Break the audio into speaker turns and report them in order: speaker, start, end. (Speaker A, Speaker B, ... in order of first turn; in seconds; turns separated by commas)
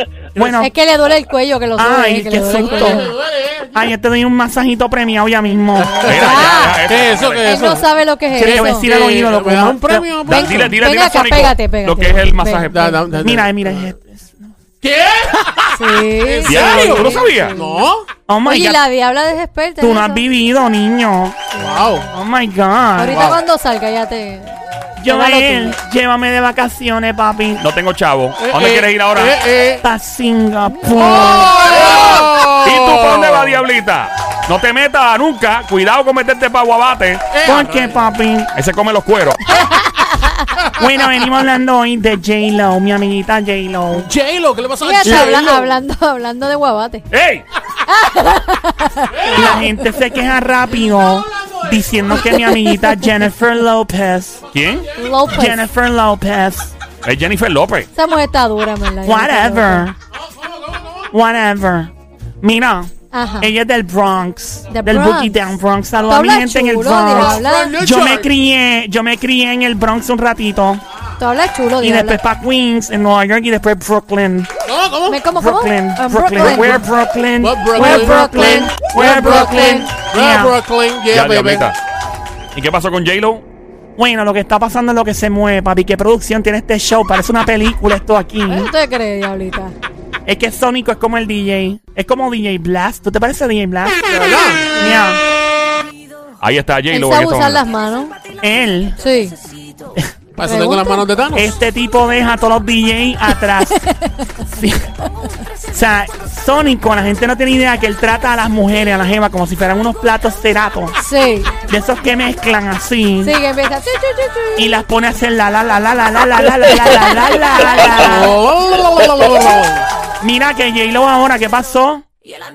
Speaker A: 0.4-0.7, Speaker B: 0.4-3.1, Speaker A: 1.8-3.1, Speaker C: 2.6-3.9, Speaker A: 3.7-6.2, Speaker C: 5.8-10.8, Speaker D: 6.0-7.6, Speaker B: 6.1-6.8, Speaker B: 7.4-8.9, Speaker A: 8.4-10.2, Speaker B: 10.3-13.1, Speaker D: 10.4-13.0, Speaker C: 12.7-13.9, Speaker A: 13.2-14.6, Speaker C: 14.8-18.1, Speaker B: 15.7-17.9, Speaker D: 16.4-17.6, Speaker A: 18.3-18.8, Speaker B: 18.4-20.2, Speaker A: 19.8-21.5, Speaker C: 21.6-22.1, Speaker A: 22.1-23.3, Speaker B: 23.0-25.8, Speaker C: 23.1-23.4, Speaker A: 25.0-27.6, Speaker D: 27.6-29.4, Speaker C: 28.4-29.8, Speaker A: 29.8-31.8, Speaker C: 31.0-33.6, Speaker D: 31.9-37.3, Speaker C: 37.3-38.1, Speaker A: 37.4-38.5, Speaker D: 38.5-39.4, Speaker B: 39.5-40.5, Speaker A: 40.8-44.1, Speaker C: 44.0-45.8, Speaker B: 44.8-47.0, Speaker A: 45.0-45.4, Speaker D: 47.1-47.5, Speaker B: 47.9-49.8, Speaker C: 49.1-49.7, Speaker A: 49.3-54.5, Speaker C: 50.7-52.5, Speaker D: 54.5-54.9, Speaker B: 55.0-55.6, Speaker A: 55.3-56.8, Speaker D: 57.0-57.9, Speaker B: 57.9-59.9, Speaker A: 59.0-60.0, Speaker C: 60.1-61.1, Speaker A: 61.1-70.8, Speaker B: 63.1-63.5, Speaker B: 64.7-65.4, Speaker B: 66.0-67.7, Speaker C: 67.1-68.3, Speaker B: 71.2-72.2, Speaker A: 71.8-74.5, Speaker C: 74.7-75.2, Speaker B: 75.1-76.8, Speaker A: 75.3-80.6, Speaker C: 76.5-76.8, Speaker C: 77.4-81.7, Speaker B: 77.8-79.9, Speaker D: 81.1-81.8, Speaker D: 82.5-83.5, Speaker A: 84.0-88.7, Speaker B: 88.5-89.8, Speaker A: 90.3-94.0, Speaker C: 94.1-94.9, Speaker A: 94.8-95.2, Speaker D: 96.4-97.6, Speaker B: 96.9-98.1, Speaker A: 98.4-99.0, Speaker B: 99.0-99.3, Speaker C: 100.4-101.6, Speaker B: 100.4-101.0, Speaker A: 101.3-103.8, Speaker B: 103.7-104.3, Speaker A: 104.5-104.9, Speaker A: 105.7-111.0, Speaker B: 111.0-111.5, Speaker A: 111.7-113.4, Speaker B: 113.2-114.8, Speaker A: 114.6-118.4, Speaker B: 117.3-118.3, Speaker C: 117.9-119.9, Speaker A: 120.2-122.1